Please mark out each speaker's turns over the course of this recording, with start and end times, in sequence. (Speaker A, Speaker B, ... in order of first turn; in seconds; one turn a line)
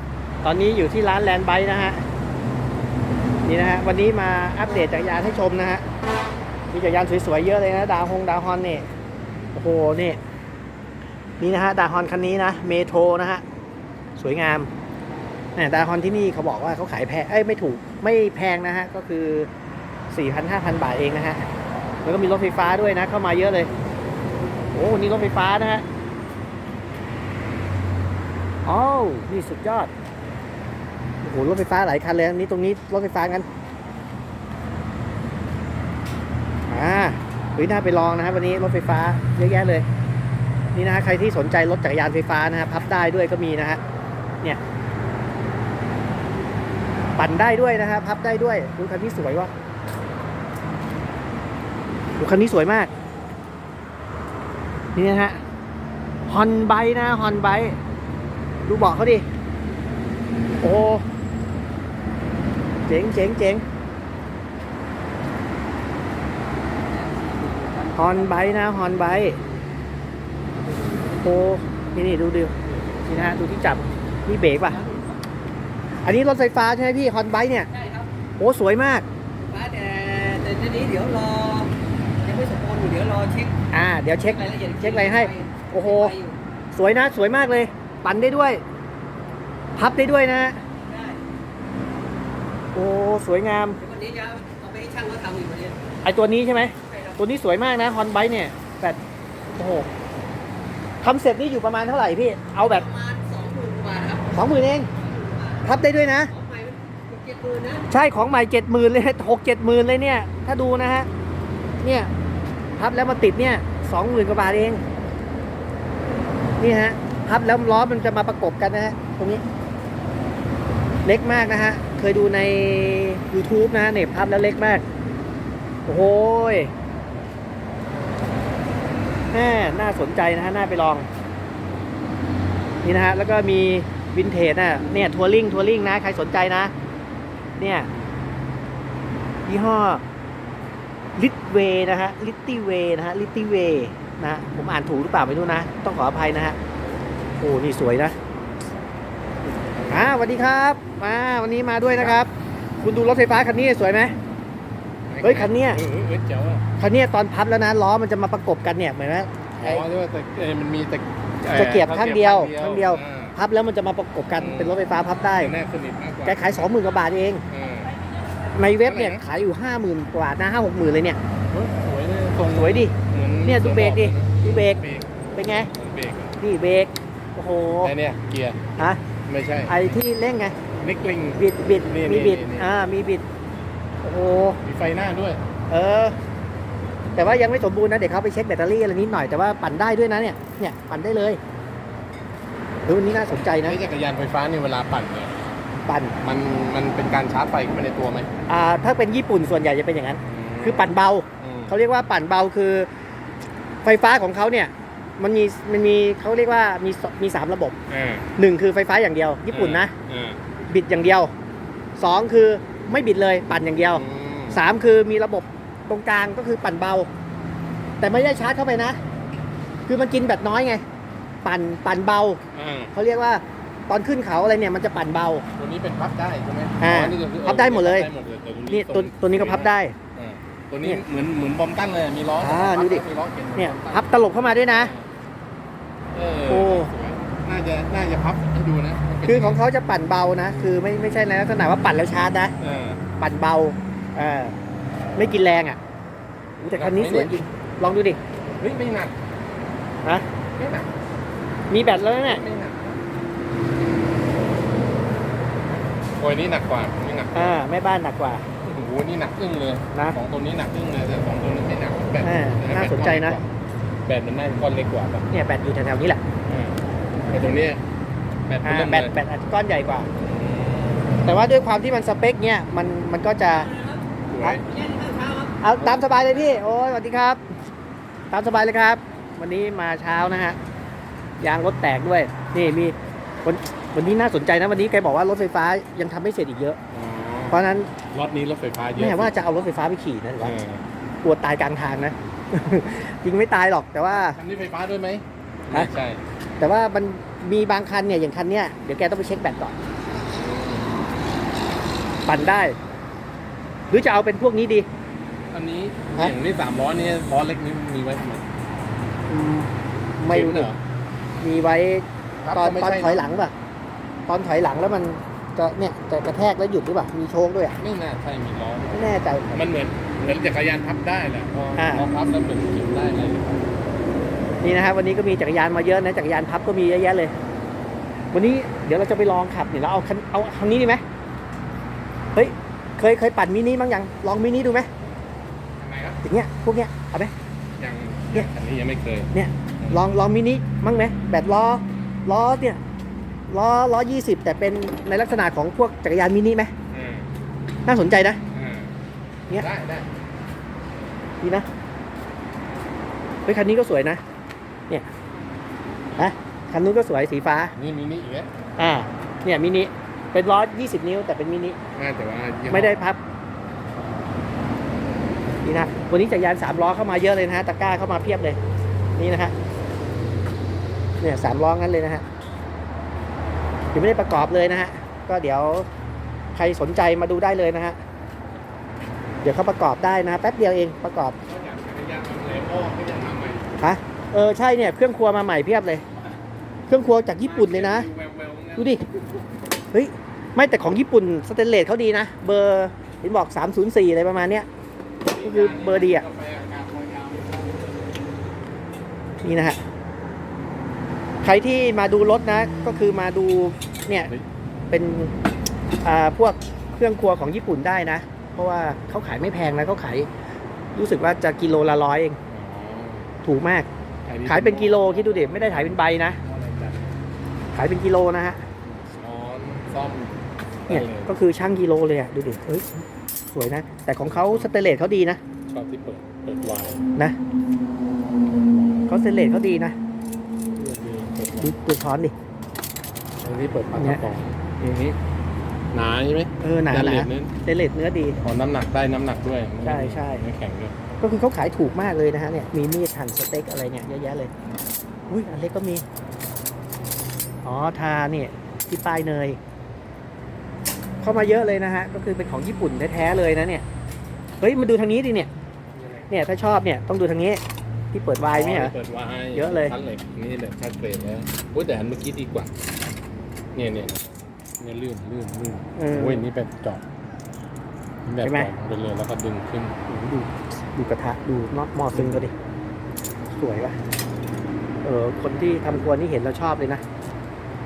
Speaker A: 0.4-2.0
Speaker A: 3.4-5.8
Speaker A: 6.7-8.9
Speaker A: 9.5-10.2
Speaker A: 11.4-13.4
Speaker A: 14.2-14.7
Speaker A: 15.6-19.5
Speaker A: 20.1-21.5
Speaker A: 22.0-23.7
Speaker A: 24.7-25.8
Speaker A: 28.6-29.9
Speaker A: 31.2-33.5
Speaker A: 36.7-39.9
Speaker A: 40.7-43.8
Speaker A: 47.2-49.5
Speaker A: 52.1-52.9
Speaker A: 55.0-55.4
Speaker A: 56.3-57.8
Speaker A: 58.6-59.2
Speaker A: 60.6-61.0
Speaker A: 62.9-63.6
Speaker B: 66.9-68.6
Speaker A: 68.0-69.4
Speaker A: 71.2-72.5
Speaker A: 73.0-74.8
Speaker B: 74.8-75.2
Speaker A: 76.0-77.7
Speaker B: 77.7-78.1
Speaker A: 78.4-79.0
Speaker B: 79.5-83.5
Speaker A: 83.7-86.1
Speaker B: 84.3-86.4
Speaker A: 86.7-88.6
Speaker A: 89.8-90.6
Speaker B: 90.8-91.2
Speaker A: 92.7-93.8
Speaker B: 93.8-95.8
Speaker A: 96.0-99.0
Speaker A: 99.5-99.9
Speaker A: 101.0-102.9
Speaker B: 102.7-104.3
Speaker A: 104.3-104.9
Speaker B: 105.0-105.7
Speaker A: 105.6-106.3
Speaker B: 106.3-107.8
Speaker A: 107.9-111.1
Speaker A: 111.8-112.1
Speaker A: 112.8-114.8
Speaker A: 116.6-119.4
Speaker A: 121.0-124.8
Speaker A: 125.9-126.7
Speaker A: 129.3-131.1
Speaker A: 132.8-136.7
Speaker A: 137.6-137.9
Speaker A: 139.4-140.0
Speaker A: 141.2-146.6
Speaker A: 147.4-148.2
Speaker A: 149.9-154.1
Speaker C: 155.1-156.7
Speaker A: 155.2-155.8
Speaker A: 156.8-159.8
Speaker C: 159.6-163.4
Speaker A: 161.4-165.5
Speaker C: 164.3-164.8
Speaker C: 165.4-166.7
Speaker A: 166.2-167.4
Speaker C: 167.5-168.0
Speaker A: 168.5-171.2
Speaker C: 168.8-169.2
Speaker C: 171.5-175.1
Speaker A: 172.5-174.8
Speaker A: 175.3-175.7
Speaker C: 175.7-176.3
Speaker A: 176.4-177.9
Speaker C: 177.8-180.0
Speaker A: 179.7-180.6
Speaker C: 180.8-182.9
Speaker A: 181.3-183.2
Speaker A: 184.0-184.6
Speaker C: 184.6-185.4
Speaker A: 185.7-186.2
Speaker A: 187.2-191.4
Speaker A: 192.9-193.8
Speaker C: 193.6-195.4
Speaker A: 195.8-196.2
Speaker C: 196.2-198.3
Speaker A: 198.5-202.9
Speaker C: 200.2-201.8
Speaker A: 203.8-207.8
Speaker C: 207.9-208.3
Speaker A: 208.3-209.9
Speaker C: 209.5-210.4
Speaker A: 210.7-211.3
Speaker A: 212.0-217.1
Speaker C: 213.9-214.6
Speaker A: 218.0-219.0
Speaker A: 219.9-220.8
Speaker A: 221.4-222.4
Speaker C: 222.5-222.9
Speaker A: 222.9-225.5
Speaker C: 225.6-235.1
Speaker A: 226.8-228.1
Speaker A: 228.7-229.9
Speaker A: 232.4-233.0
Speaker A: 233.6-234.9
Speaker C: 236.1-239.6
Speaker A: 236.5-236.9
Speaker A: 239.2-242.5
Speaker C: 242.6-243.0
Speaker A: 243.2-244.6
Speaker A: 245.2-245.8
Speaker A: 246.6-248.2
Speaker C: 246.6-247.4
Speaker C: 248.6-249.2
Speaker C: 250.5-250.9
Speaker A: 251.7-252.4
Speaker C: 251.9-253.0
Speaker C: 256.2-257.6
Speaker A: 257.3-258.5
Speaker C: 258.6-263.5
Speaker A: 259.9-260.2
Speaker A: 262.2-263.4
Speaker C: 264.0-265.3
Speaker A: 265.3-266.2
Speaker C: 266.4-266.8
Speaker C: 267.3-267.8
Speaker C: 268.5-269.2
Speaker A: 268.6-270.1
Speaker C: 270.2-271.2
Speaker A: 271.2-273.7
Speaker C: 274.3-274.7
Speaker B: 274.7-275.6
Speaker A: 275.6-277.4
Speaker C: 275.8-276.6
Speaker A: 278.3-280.6
Speaker A: 281.4-286.8
Speaker C: 286.9-287.6
Speaker A: 287.5-287.9
Speaker C: 288.1-289.3
Speaker A: 288.9-290.6
Speaker C: 290.4-290.8
Speaker A: 291.2-294.4
Speaker C: 294.1-296.2
Speaker A: 296.6-299.8
Speaker C: 300.3-301.0
Speaker A: 302.2-302.8
Speaker A: 303.9-304.9
Speaker C: 305.5-308.4
Speaker A: 309.3-310.7
Speaker C: 310.3-310.8
Speaker A: 311.4-313.5
Speaker C: 312.4-313.3
Speaker A: 314.3-317.8
Speaker C: 317.8-323.6
Speaker A: 318.9-319.6
Speaker A: 321.8-322.1
Speaker A: 324.6-327.3
Speaker A: 328.3-331.0
Speaker A: 332.3-334.9
Speaker C: 335.8-336.2
Speaker A: 336.2-337.3
Speaker C: 337.8-340.0
Speaker A: 339.3-342.8
Speaker A: 343.5-346.7
Speaker C: 346.9-347.3
Speaker A: 347.9-348.4
Speaker C: 348.5-348.9
Speaker C: 349.5-350.1
Speaker A: 351.4-351.6
Speaker A: 353.4-354.2
Speaker A: 356.2-357.7
Speaker C: 357.7-358.5
Speaker A: 358.8-361.8
Speaker C: 361.9-363.0
Speaker A: 362.7-363.2
Speaker A: 365.6-368.6
Speaker A: 369.1-369.5
Speaker A: 371.2-372.2
Speaker A: 373.9-375.9
Speaker A: 376.5-378.0
Speaker A: 379.4-381.4
Speaker C: 381.4-383.7
Speaker A: 383.8-386.0
Speaker A: 386.9-388.1
Speaker C: 387.4-389.2
Speaker A: 388.8-389.0
Speaker A: 389.9-394.7
Speaker C: 395.2-398.0
Speaker A: 395.4-396.2
Speaker A: 399.4-399.8
Speaker A: 401.4-404.3
Speaker A: 404.9-405.3
Speaker A: 406.0-410.3
Speaker A: 410.9-412.4
Speaker C: 412.5-413.3
Speaker A: 413.4-413.9
Speaker C: 414.2-417.2
Speaker A: 414.4-416.4
Speaker A: 417.7-418.6
Speaker C: 418.8-421.3
Speaker A: 420.9-425.4
Speaker C: 424.2-424.7
Speaker C: 425.7-427.0
Speaker C: 428.5-429.1
Speaker A: 429.1-429.9
Speaker C: 430.7-431.7
Speaker A: 431.6-432.3
Speaker C: 433.4-435.2
Speaker A: 434.0-434.2
Speaker C: 435.9-437.5
Speaker A: 436.6-438.4
Speaker C: 438.4-440.9
Speaker A: 439.8-440.4
Speaker A: 441.2-444.5
Speaker A: 445.3-446.0
Speaker A: 447.6-449.6
Speaker A: 451.2-453.8
Speaker A: 454.6-455.5
Speaker C: 455.9-456.3
Speaker A: 456.3-457.6
Speaker A: 458.1-458.9
Speaker C: 458.4-462.7
Speaker A: 459.5-459.9
Speaker C: 463.7-467.0
Speaker A: 465.9-466.4
Speaker C: 468.2-470.0
Speaker A: 468.4-468.7
Speaker A: 470.1-472.5
Speaker C: 472.1-472.5
Speaker A: 473.5-474.0
Speaker A: 475.0-477.0